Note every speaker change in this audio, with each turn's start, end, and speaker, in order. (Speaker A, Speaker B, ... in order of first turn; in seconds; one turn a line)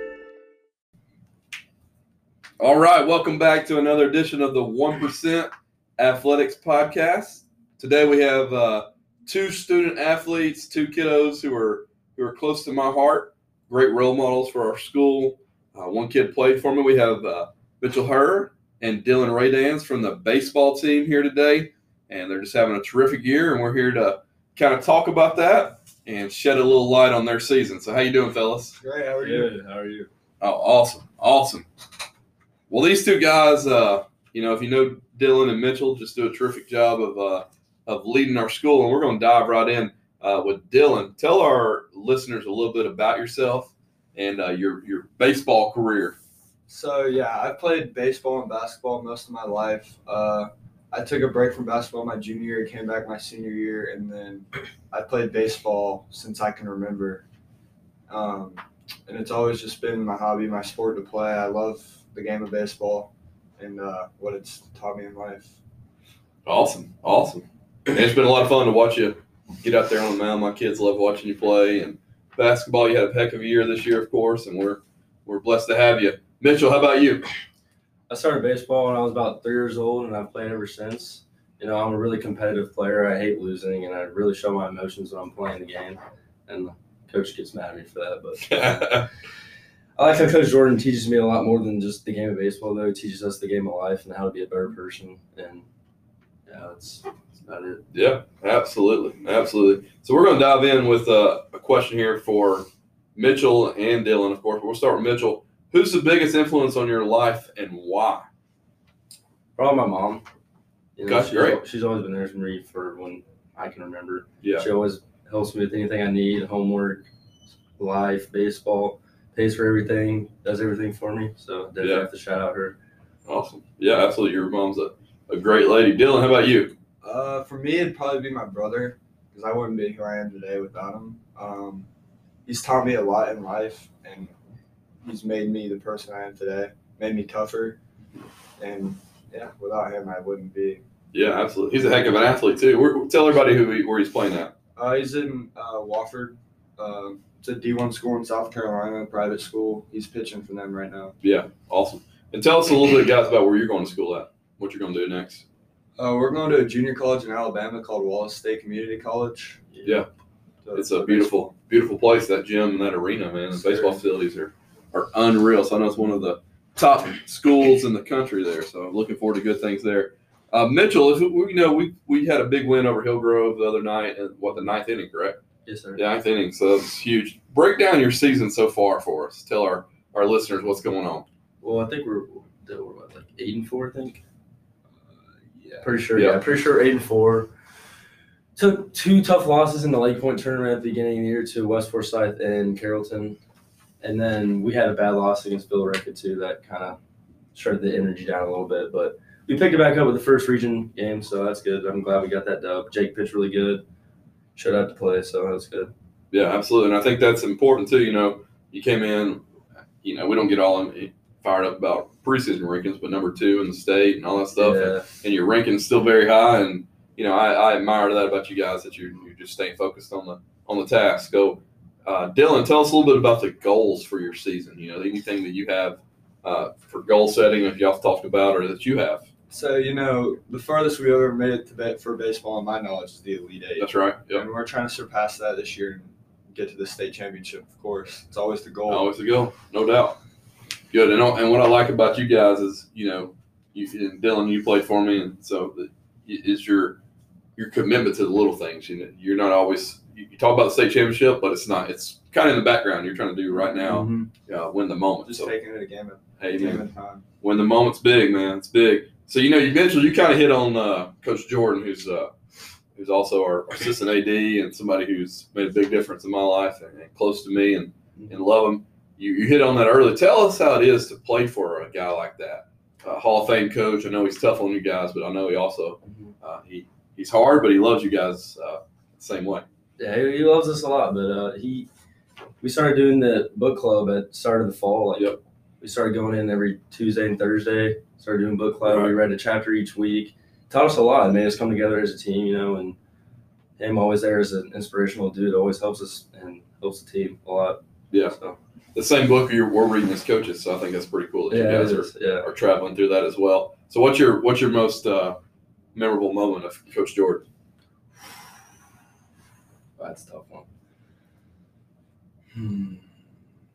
Speaker A: 2.6-28.8
Speaker B: 28.8-29.5
Speaker C: 29.2-30.1
Speaker A: 30.4-31.6
Speaker A: 32.7-46.2
Speaker B: 46.7-57.2
Speaker B: 58.1-65.6
Speaker A: 66.5-77.3
Speaker C: 78.1-89.1
Speaker A: 88.5-89.1
Speaker C: 90.0-95.7
Speaker C: 96.5-97.8
Speaker A: 97.9-108.3
Speaker C: 109.5-110.2
Speaker C: 111.0-117.1
Speaker A: 111.0-111.6
Speaker A: 114.4-114.7
Speaker C: 117.8-122.8
Speaker A: 121.8-122.0
Speaker A: 123.3-126.7
Speaker B: 127.0-131.9
Speaker B: 132.4-134.3
Speaker B: 135.0-137.8
Speaker B: 138.6-140.8
Speaker A: 141.1-144.5
Speaker B: 144.8-151.1
Speaker A: 151.2-155.4
Speaker B: 156.0-159.7
Speaker C: 159.7-160.1
Speaker B: 160.6-161.5
Speaker A: 160.7-175.4
Speaker B: 163.7-164.0
Speaker C: 175.7-176.0
Speaker A: 175.9-181.2
Speaker C: 181.6-184.2
Speaker B: 185.4-185.9
Speaker C: 185.8-187.5
Speaker A: 186.1-186.4
Speaker C: 188.6-193.4
Speaker C: 194.0-197.0
Speaker C: 197.5-203.8
Speaker C: 204.5-205.9
Speaker A: 206.3-209.4
Speaker A: 210.0-229.2
Speaker C: 214.5-215.0
Speaker B: 229.5-239.1
Speaker A: 233.8-234.4
Speaker A: 238.9-240.2
Speaker A: 240.9-247.0
Speaker A: 247.6-255.5
Speaker C: 253.8-254.3
Speaker B: 255.2-257.2
Speaker A: 256.4-256.8
Speaker A: 257.4-262.3
Speaker A: 262.9-279.6
Speaker C: 276.1-276.3
Speaker C: 280.0-281.9
Speaker C: 282.6-293.0
Speaker A: 288.8-289.1
Speaker C: 293.8-298.6
Speaker A: 298.9-305.4
Speaker C: 301.5-302.5
Speaker A: 305.9-307.4
Speaker C: 310.0-310.7
Speaker C: 312.5-313.0